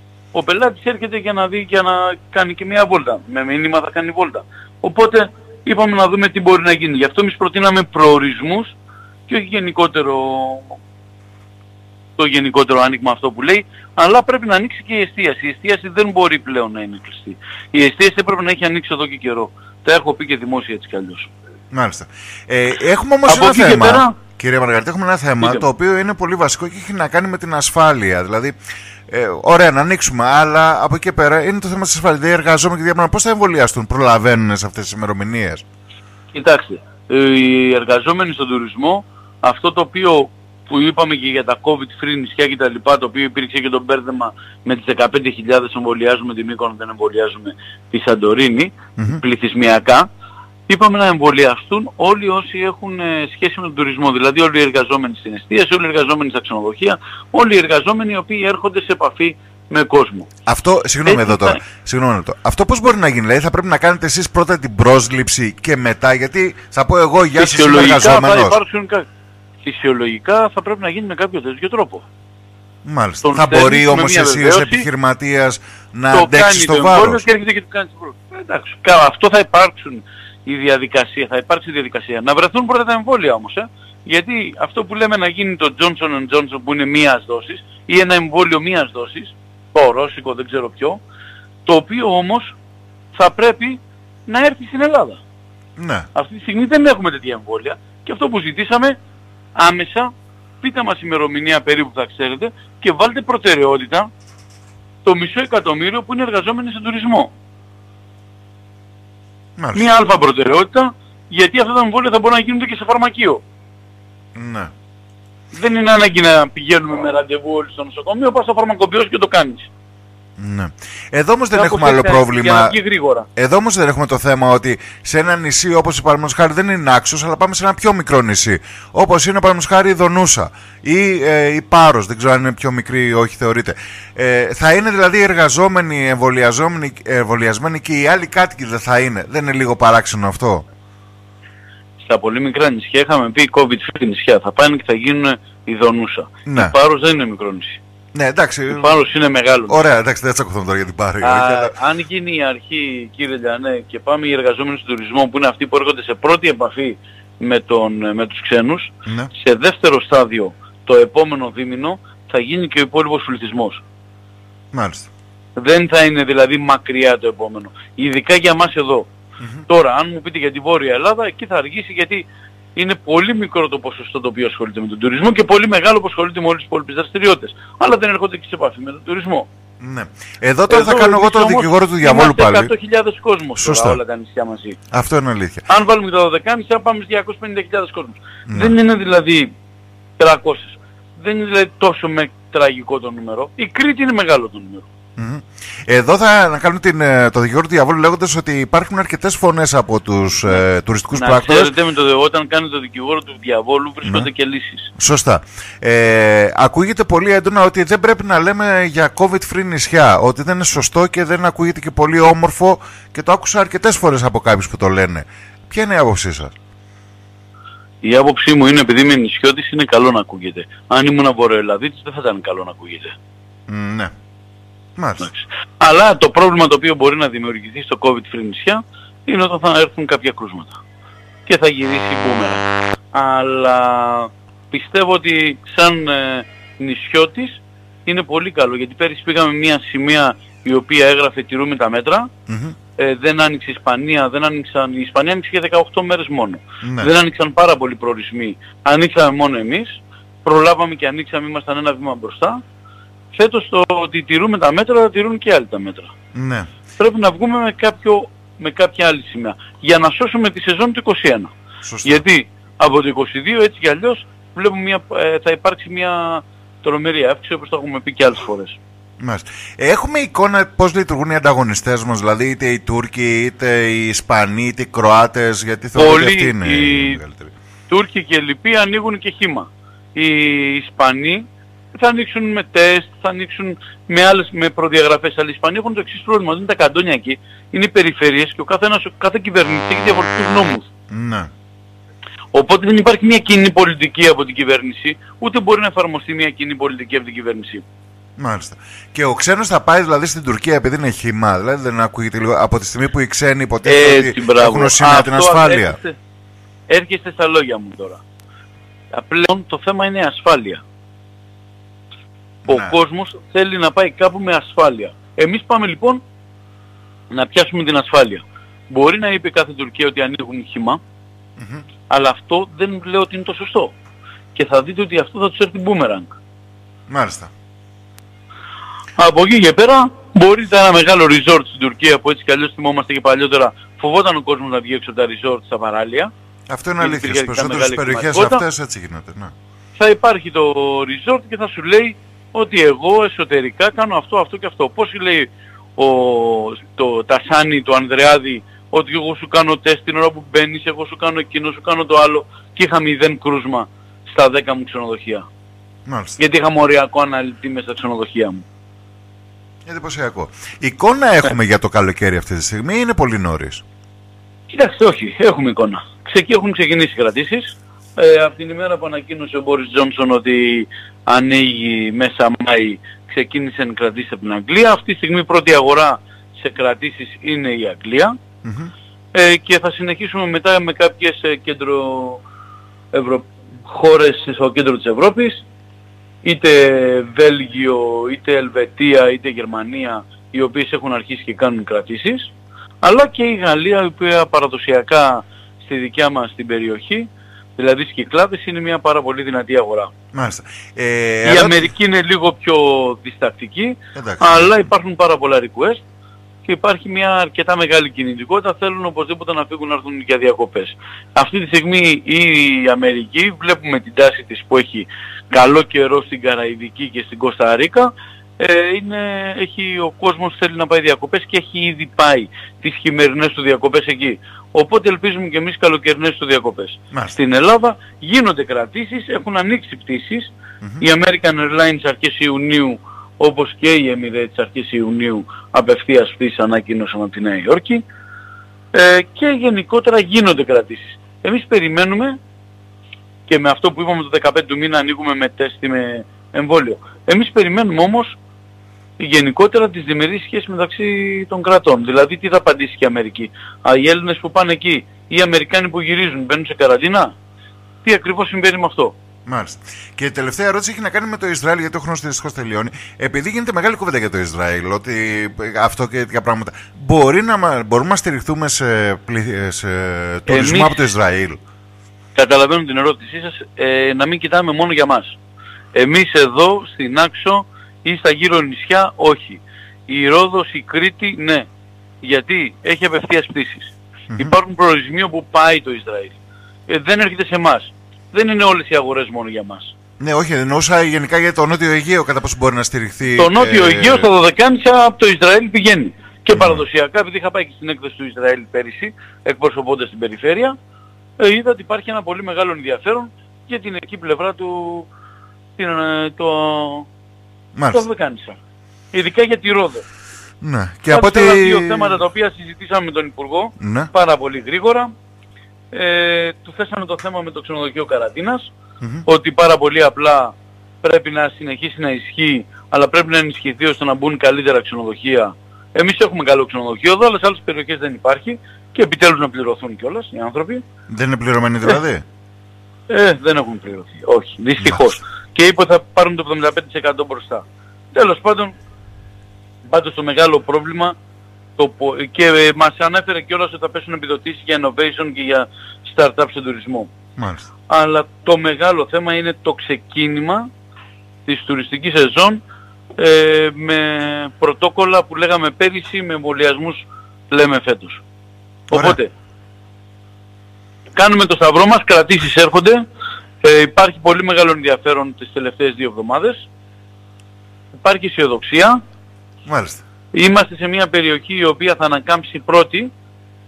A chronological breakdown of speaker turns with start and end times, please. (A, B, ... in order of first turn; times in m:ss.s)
0:00.3-0:08.8 A
0:09.3-0:10.8 A
0:12.2-0:21.3 A
0:21.7-0:28.6 B
0:23.2-0:24.2 A
0:29.1-0:35.6 B
0:36.3-0:50.1 A
0:50.7-1:00.3 A
1:00.5-1:08.6 B
1:01.0-1:01.6 A
1:07.4-1:09.1 A
1:09.6-1:12.0 A
1:12.8-1:17.2 B
1:13.2-1:14.9 A
1:16.1-1:31.0 A
1:31.7-1:32.6 A
1:33.1-1:35.2 A
1:35.8-1:36.1 B
1:36.2-1:39.0 A
1:39.6-1:40.1 A
1:40.6-1:44.1 A
1:45.0-1:47.3 A
1:49.6-1:49.8 B
1:49.8-1:53.4 A
1:54.4-1:54.7 B
1:55.5-1:59.7 A
2:00.4-2:02.7 B
2:01.5-2:03.3 A
2:03.4-2:20.6 B
2:22.0-2:27.8 A
2:26.5-2:26.7 B
2:28.1-2:29.0 B
2:28.7-2:29.8 A
2:29.7-2:31.7 B
2:31.2-2:43.8 A
2:44.7-2:45.1 B
2:45.6-2:49.1 A
2:49.7-2:59.5 A
2:59.8-3:02.7 B
3:00.7-3:04.8 A
3:03.6-3:04.0 B
3:04.9-3:05.6 B
3:05.7-3:09.5 A
3:08.5-3:08.8 B
3:10.2-3:14.9 A
3:15.2-3:21.7 B
3:21.1-3:24.9 A
3:25.0-3:36.5 B
3:38.0-3:43.2 A
3:43.7-3:44.1 B
3:45.0-3:45.3 B
3:45.2-3:50.8 A
3:51.5-4:02.3 A
4:02.5-4:02.8 B
4:03.0-4:12.6 A
4:06.8-4:07.1 B
4:13.3-4:16.1 A
4:16.3-4:16.7 B
4:17.0-4:21.5 A
4:21.8-4:22.2 B
4:22.0-4:28.8 A
4:29.2-4:37.5 B
4:36.0-4:37.2 A
4:37.9-4:50.9 A
4:51.1-4:51.5 B
4:52.5-4:57.8 A
4:58.4-5:06.0 B
5:03.8-5:06.2 A
5:06.9-5:08.2 A
5:09.1-5:10.8 A
5:12.7-5:13.0 B
5:12.7-5:16.2 A
5:17.3-5:21.0 A
5:21.6-5:21.8 B
5:22.1-5:23.9 A
5:24.5-5:26.4 A
5:27.1-5:27.5 B
5:29.2-5:36.3 A
5:36.7-5:39.5 B
5:37.0-5:38.6 A
5:40.0-5:55.4 A
5:56.1-5:56.4 B
5:56.4-5:58.6 A
5:59.8-6:03.8 B
6:04.7-6:18.4 A
6:18.6-6:18.9 B
6:19.3-6:22.4 A
6:23.1-6:25.6 A
6:26.4-6:32.5 A
6:33.0-6:40.1 A
6:40.3-6:41.9 B
6:41.4-6:46.0 A
6:44.2-6:44.8 B
6:46.6-7:18.0 A
7:07.1-7:07.4 B
7:18.9-7:22.4 A
7:23.5-7:28.4 A
7:29.2-7:37.3 A
7:38.0-7:39.2 A
7:39.5-7:51.6 B
7:50.5-7:51.1 A
7:52.4-7:55.4 A
7:55.9-8:01.7 A
8:02.2-8:06.4 A
8:04.3-8:04.6 B
8:06.9-8:09.9 A
8:10.2-8:14.3 B
8:13.4-8:20.8 A
8:16.6-8:16.8 B
8:21.4-8:25.1 A
8:25.8-8:27.1 A
8:27.8-8:28.0 B
8:27.9-8:28.6 A
8:29.1-8:30.0 A
8:30.6-8:32.2 B
8:31.1-8:35.1 A
8:33.8-8:34.1 B
8:35.9-8:38.7 A
8:39.3-8:50.8 A
8:51.1-8:52.2 B
8:53.1-8:58.7 A
8:54.8-8:55.0 B
8:59.8-9:01.2 A
9:01.8-9:07.1 A
9:07.4-9:07.7 B
9:07.9-9:10.7 A
9:11.5-9:12.6 A
9:13.2-9:18.2 A
9:18.9-9:19.2 B
9:18.9-9:19.3 A
9:21.2-9:23.0 A
9:23.6-9:26.7 A
9:28.0-9:29.0 A
9:29.7-9:30.0 B
9:30.3-9:33.1 A